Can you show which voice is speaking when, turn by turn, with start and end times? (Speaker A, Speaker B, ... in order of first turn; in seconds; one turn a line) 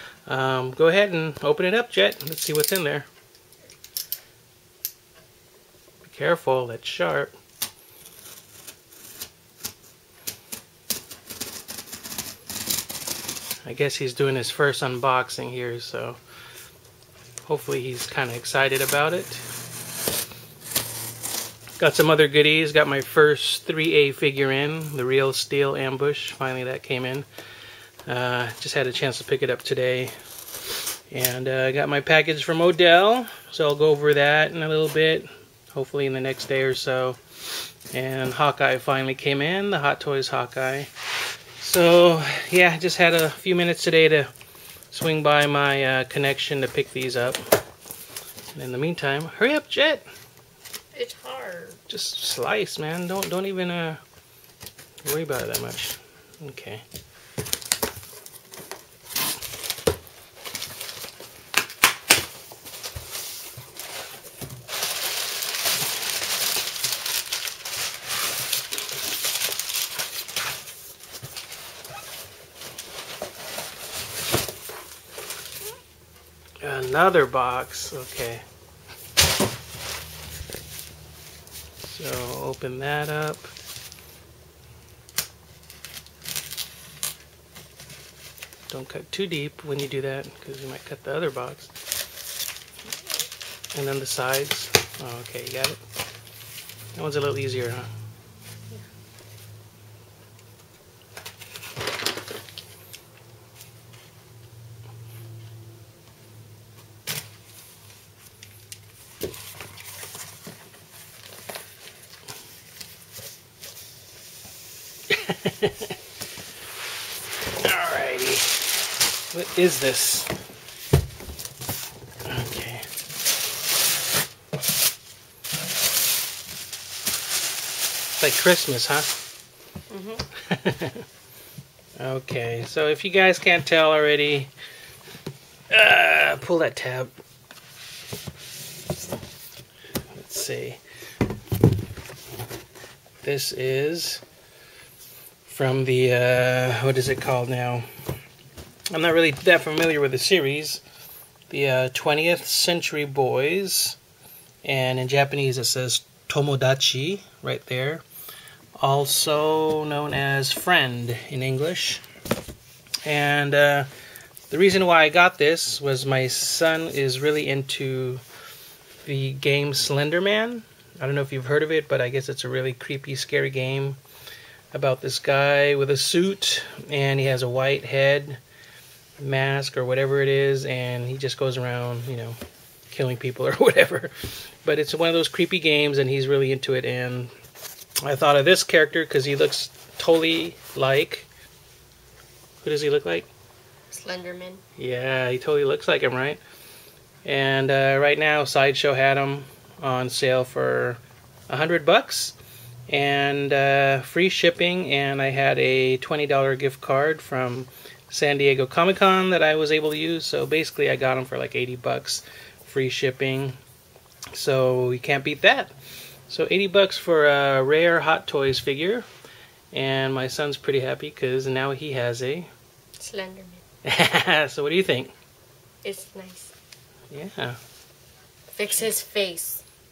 Speaker A: 0.3-3.1
Speaker A: 6.0-7.3
Speaker A: 13.6-16.2
Speaker A: 17.5-19.4
Speaker A: 21.8-27.3
Speaker A: 28.1-30.1
Speaker A: 31.1-37.2
Speaker A: 37.9-40.9
Speaker A: 41.6-44.3
Speaker A: 44.9-47.4
Speaker A: 48.5-50.0
Speaker B: 50.9-51.8
Speaker A: 51.9-54.0
Speaker A: 55.0-56.8
Speaker A: 76.6-78.4
Speaker A: 81.8-83.5
Speaker A: 88.7-91.7
Speaker A: 93.7-95.8
Speaker A: 96.9-97.9
Speaker A: 115.1-115.9
Speaker A: 117.6-118.5
Speaker A: 119.3-120.3
Speaker A: 122.2-122.9
Speaker A: 128.2-129.1
Speaker B: 129.9-130.2
Speaker A: 130.3-131.0
Speaker A: 132.0-134.5
Speaker A: 135.7-137.1
Speaker A: 140.1-140.8
Speaker A: 143.2-144.2
Speaker A: 145.4-147.9
Speaker A: 148.9-150.8
Speaker A: 151.5-154.0
Speaker A: 154.6-158.0
Speaker A: 158.8-162.0
Speaker A: 163.0-163.9
Speaker A: 164.5-168.2
Speaker A: 169.0-174.0
Speaker A: 174.7-178.4
Speaker A: 179.2-182.4
Speaker A: 182.9-187.3
Speaker A: 188.0-191.3
Speaker A: 192.6-193.3
Speaker B: 193.9-194.6
Speaker A: 194.8-196.4
Speaker A: 197.2-202.3
Speaker A: 202.9-213.6
Speaker A: 214.3-215.7
Speaker A: 216.3-219.1
Speaker A: 219.7-222.5
Speaker B: 223.0-223.6
Speaker A: 223.8-225.1
Speaker B: 225.8-226.5
Speaker A: 227.1-227.6
Speaker B: 228.5-229.6